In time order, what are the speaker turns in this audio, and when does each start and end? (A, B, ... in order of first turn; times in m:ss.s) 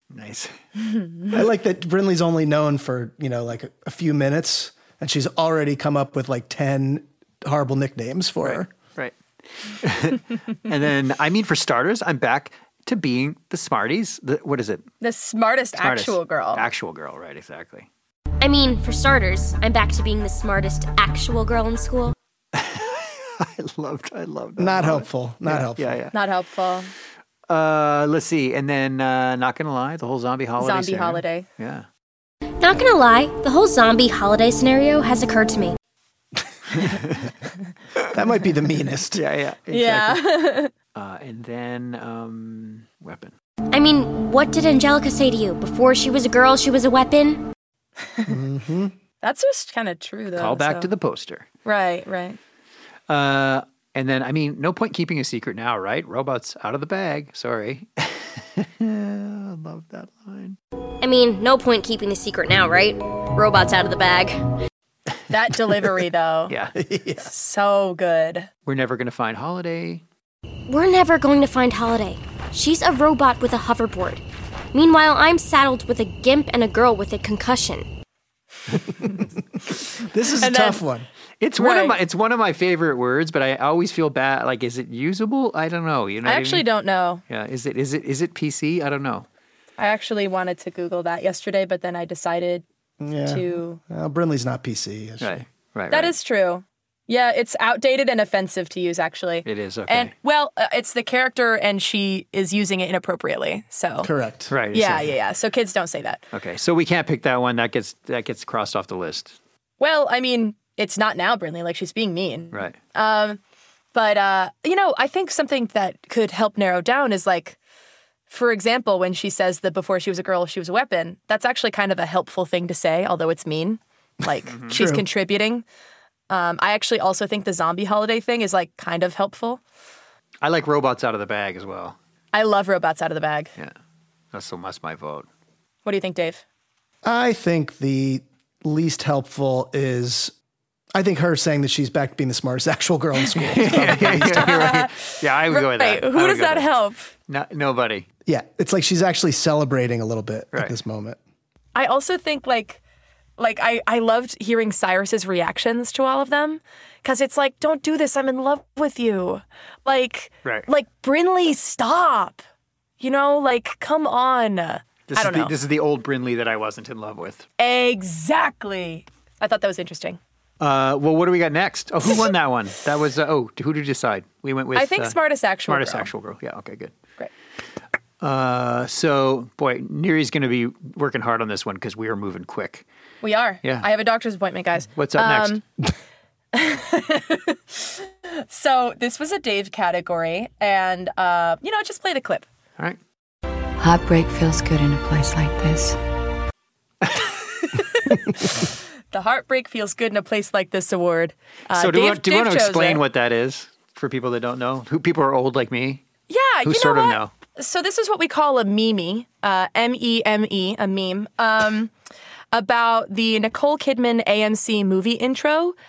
0:00.1-0:00.5 A
0:01.3-0:08.7 B
0:08.4-0:14.8 A
0:15.0-0:16.6 C
0:15.8-0:17.9 A
0:18.4-0:22.1 D
0:22.5-0:26.1 A
0:24.6-0:26.0 B
0:26.1-0:26.9 C
0:27.5-0:31.8 A
0:30.6-0:31.5 C
0:32.6-0:35.7 D
0:36.7-0:37.3 A
0:38.1-0:39.2 B
0:39.1-0:40.2 A
0:39.7-0:40.7 C
0:40.9-0:43.3 A
0:43.7-0:47.4 D
0:48.3-0:48.9 B
0:49.2-0:50.9 C
0:50.3-0:51.4 A
0:51.6-0:52.4 C
0:53.1-1:00.6 A
1:01.0-1:04.4 D
1:05.3-1:06.5 C
1:06.5-1:06.7 A
1:06.8-1:07.3 B
1:07.2-1:08.5 C
1:08.6-1:10.0 A
1:10.7-1:14.2 D
1:14.7-1:17.9 D
1:20.0-1:21.1 B
1:20.4-1:20.8 C
1:21.4-1:26.7 A
1:21.6-1:22.0 C
1:26.2-1:27.2 C
1:27.3-1:29.3 A
1:29.8-1:32.6 C
1:33.0-1:35.4 B
1:33.2-1:33.8 C
1:35.2-1:36.1 A
1:35.9-1:44.1 C
1:39.4-1:40.1 A
1:44.0-1:44.5 B
1:44.5-1:45.1 A
1:44.7-1:46.2 C
1:46.3-1:49.4 A
1:49.8-1:53.4 C
1:53.9-1:57.6 C
1:58.3-2:05.6 C
2:04.5-2:04.8 A
2:04.7-2:05.0 B
2:06.3-2:09.6 C
2:10.4-2:12.0 A
2:12.3-2:13.5 C
2:14.3-2:15.3 A
2:15.8-2:16.4 C
2:17.0-2:20.3 B
2:20.9-2:24.7 B
2:23.4-2:26.8 A
2:24.0-2:27.1 C
2:27.3-2:28.0 A
2:28.2-2:31.2 B
2:31.7-2:32.8 C
2:33.4-2:42.4 C
2:43.0-2:45.5 C
2:45.1-2:47.5 A
2:47.6-2:50.2 C
2:50.6-2:56.9 A
2:54.7-2:56.1 C
2:58.2-3:02.8 A
3:03.2-3:05.6 C
3:04.9-3:05.6 A
3:06.5-3:12.4 C
3:13.8-3:16.0 E
3:17.0-3:17.4 A
3:18.1-3:23.0 C
3:21.7-3:26.0 A
3:26.3-3:31.9 C
3:26.6-3:27.3 A
3:32.5-3:35.7 C